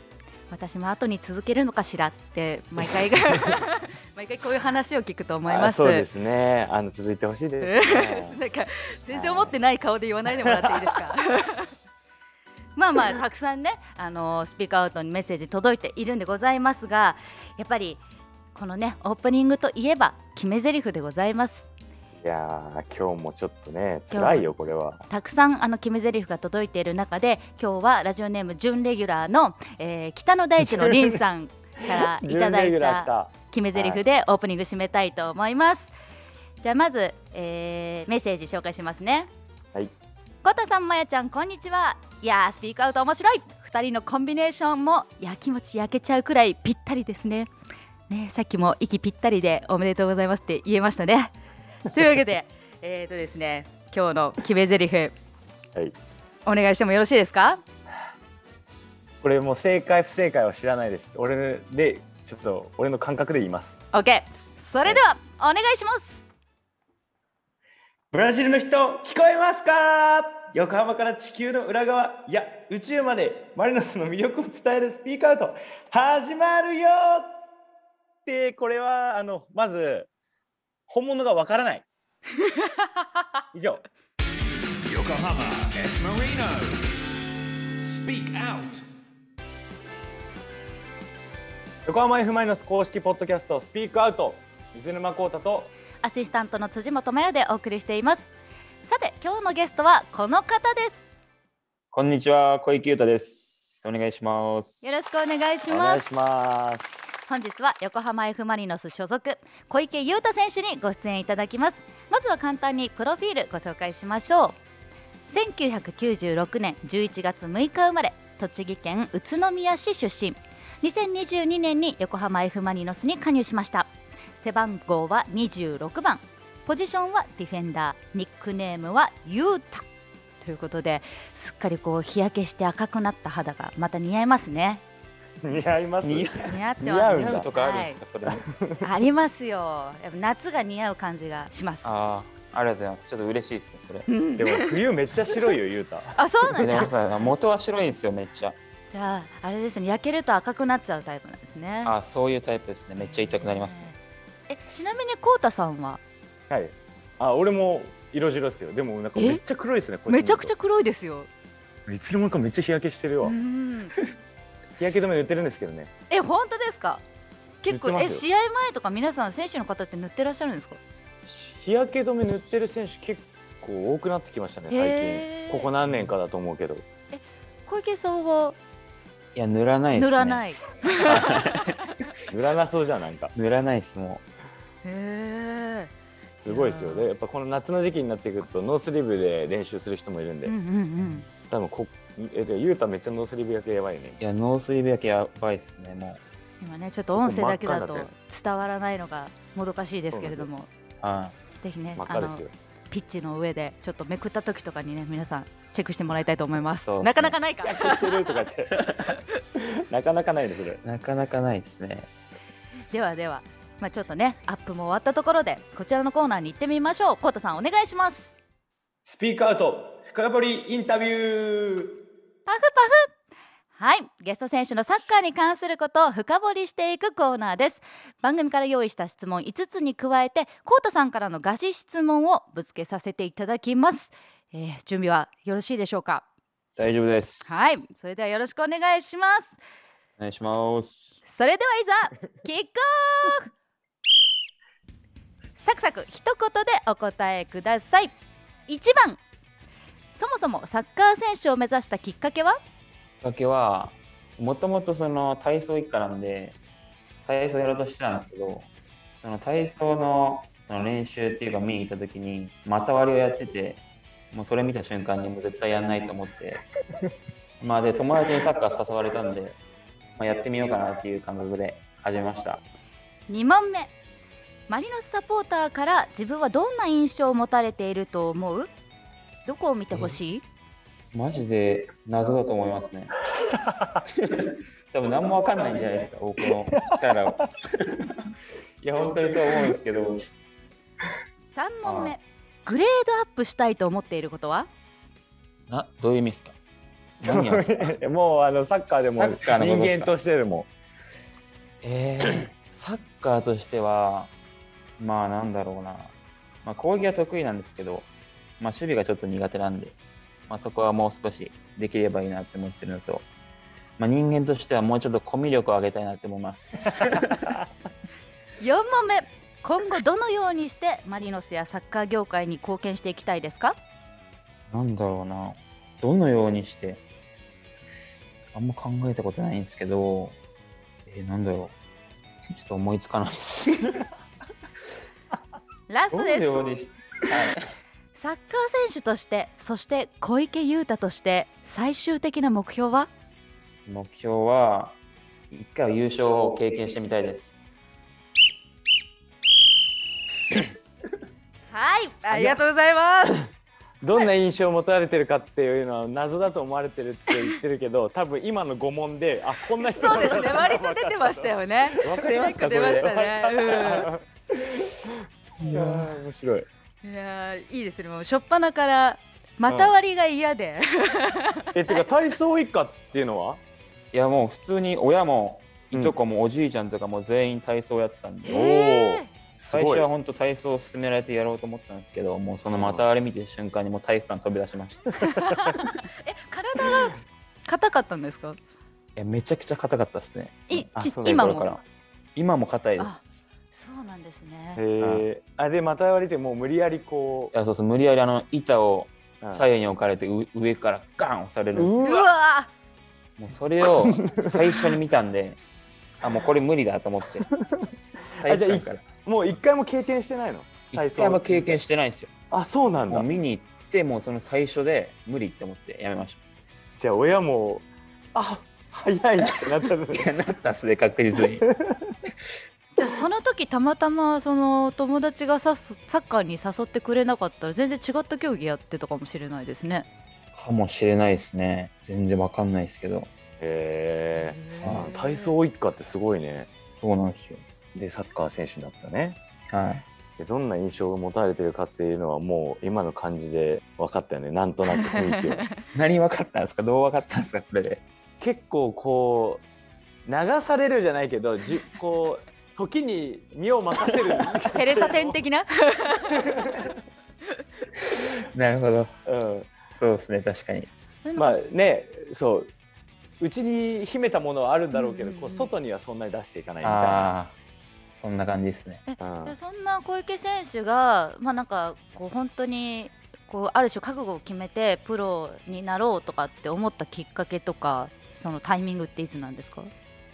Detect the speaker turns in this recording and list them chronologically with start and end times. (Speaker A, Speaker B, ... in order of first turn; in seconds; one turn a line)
Speaker A: 0.5-6.1
Speaker B: 5.5-8.4
Speaker A: 7.6-11.7
Speaker B: 9.1-9.5
Speaker A: 12.8-18.0
Speaker A: 18.5-21.6
Speaker B: 22.2-25.0
Speaker A: 24.1-24.5
Speaker A: 25.1-35.9
Speaker B: 30.6-31.1
Speaker B: 31.9-34.0
Speaker A: 36.6-39.3
Speaker A: 40.4-47.5
Speaker A: 48.1-51.3
Speaker A: 51.9-55.1
Speaker A: 56.5-57.6
Speaker B: 59.2-63.8
Speaker A: 63.9-66.2
Speaker B: 68.1-77.4
Speaker B: 78.2-80.1
Speaker B: 80.9-81.8
Speaker B: 83.5-83.8
Speaker C: 84.8-87.1
Speaker C: 87.8-88.8
Speaker B: 91.8-95.7
Speaker A: 96.0-98.3
Speaker A: 98.8-101.0
Speaker D: 101.9-104.8
Speaker A: 104.8-106.0
Speaker B: 105.7-106.9
Speaker A: 107.3-114.6
Speaker A: 115.3-129.8
Speaker A: 130.4-134.8
Speaker B: 135.4-137.5
Speaker D: 136.0-136.6
Speaker A: 136.4-138.0
Speaker D: 137.1-138.5
Speaker B: 138.5-138.8
Speaker A: 138.8-141.9
Speaker D: 141.8-144.1
Speaker A: 144.1-144.8
Speaker B: 144.4-146.1
Speaker A: 146.2-146.9
Speaker D: 146.6-148.6
Speaker A: 148.9-151.9
Speaker D: 151.8-153.9
Speaker A: 153.0-154.0
Speaker A: 154.5-156.0
Speaker B: 156.5-160.5
Speaker A: 159.2-159.4
Speaker A: 160.1-161.3
Speaker B: 161.9-163.3
Speaker A: 163.2-163.9
Speaker B: 164.8-165.9
Speaker A: 166.1-167.0
Speaker A: 167.6-170.8
Speaker B: 167.7-168.2
Speaker B: 171.2-176.8
Speaker A: 174.7-175.7
Speaker A: 177.1-178.6
Speaker D: 179.3-180.4
Speaker A: 179.9-181.7
Speaker D: 181.0-181.8
Speaker B: 182.3-183.3
Speaker D: 183.3-184.2
Speaker A: 184.8-185.9
Speaker B: 186.4-190.5
Speaker A: 186.5-187.1
Speaker A: 190.4-191.3
Speaker B: 191.4-194.2
Speaker D: 194.2-196.2
Speaker A: 196.6-200.7
Speaker B: 197.1-198.1
Speaker B: 200.1-200.5
Speaker D: 201.0-201.3
Speaker A: 201.6-208.4
Speaker B: 202.0-202.5
Speaker D: 206.6-207.4
Speaker B: 207.6-210.8
Speaker D: 210.8-212.1
Speaker A: 212.9-218.3
Speaker B: 219.0-222.0
Speaker A: 222.4-223.1
Speaker A: 223.8-236.2
Speaker D: 236.8-237.5
Speaker A: 237.4-239.6
Speaker D: 240.2-241.2
Speaker A: 241.3-243.5
Speaker A: 245.6-248.1
Speaker A: 248.7-249.2
Speaker A: 250.2-252.6
Speaker D: 253.2-256.6
Speaker D: 257.2-258.7
Speaker D: 259.2-263.8
Speaker D: 264.3-266.6
Speaker D: 267.6-269.6
Speaker D: 270.1-272.6
Speaker A: 273.3-273.9
Speaker A: 274.7-278.7
Speaker A: 279.4-280.4
Speaker D: 281.1-283.1
Speaker D: 284.0-288.1
Speaker D: 288.8-290.2
Speaker A: 291.5-294.7
Speaker D: 291.8-292.1
Speaker D: 295.7-296.5
Speaker B: 297.2-300.7
Speaker D: 297.2-297.7
Speaker D: 299.1-300.1
Speaker D: 301.8-304.3
Speaker D: 305.0-306.1
Speaker D: 306.6-308.1
Speaker D: 308.6-309.9
Speaker D: 310.5-313.2
Speaker D: 314.0-317.3
Speaker A: 318.6-323.8
Speaker D: 324.7-327.0
Speaker D: 328.5-330.4
Speaker D: 331.1-331.7
Speaker D: 332.5-334.1
Speaker A: 335.9-336.6
Speaker D: 336.1-337.7
Speaker A: 338.1-343.1
Speaker D: 343.9-345.0
Speaker D: 345.5-347.5
Speaker A: 351.7-353.5
Speaker B: 352.3-352.6
Speaker B: 354.0-366.7
Speaker A: 359.8-364.1
Speaker D: 362.0-363.1
Speaker D: 365.6-366.2
Speaker A: 367.0-372.1
Speaker B: 371.7-373.6
Speaker D: 374.1-378.7
Speaker A: 378.4-379.3
Speaker B: 378.5-380.1
Speaker D: 379.7-385.3
Speaker B: 382.7-383.1
Speaker A: 385.2-388.6
Speaker D: 389.1-391.8
Speaker A: 390.7-391.8
Speaker B: 390.9-391.6
Speaker D: 392.4-393.2
Speaker A: 393.7-394.8
Speaker B: 394.8-397.5
Speaker D: 395.0-395.2
Speaker D: 397.5-402.0
Speaker B: 399.4-399.7
Speaker B: 401.7-402.3
Speaker A: 402.0-402.7
Speaker D: 403.4-405.6
Speaker B: 403.8-404.9
Speaker D: 406.2-407.5
Speaker B: 407.4-411.8
Speaker D: 408.4-409.0
Speaker D: 410.9-412.3
Speaker B: 412.5-413.3
Speaker D: 413.1-416.4
Speaker B: 416.9-420.2
Speaker D: 420.1-421.6
Speaker B: 421.5-422.1
Speaker A: 422.9-430.1
Speaker D: 430.5-433.3
Speaker B: 433.6-436.7
Speaker A: 434.4-435.6
Speaker D: 436.9-437.6
Speaker B: 437.9-439.4
Speaker D: 439.7-440.0
Speaker B: 440.4-445.7
Speaker A: 444.9-445.7
Speaker D: 445.9-448.0
Speaker B: 448.4-449.6
Speaker B: 450.2-455.4
Speaker A: 454.7-456.4
Speaker B: 456.5-456.9
Speaker D: 458.2-459.1
Speaker B: 459.2-459.7
Speaker D: 459.9-460.9
Speaker A: 461.2-461.6
Speaker B: 461.4-462.7
Speaker B: 463.4-467.3
Speaker A: 464.9-465.7
Speaker D: 466.8-467.5
Speaker D: 468.1-469.0
Speaker A: 469.1-479.9
Speaker B: 469.2-469.6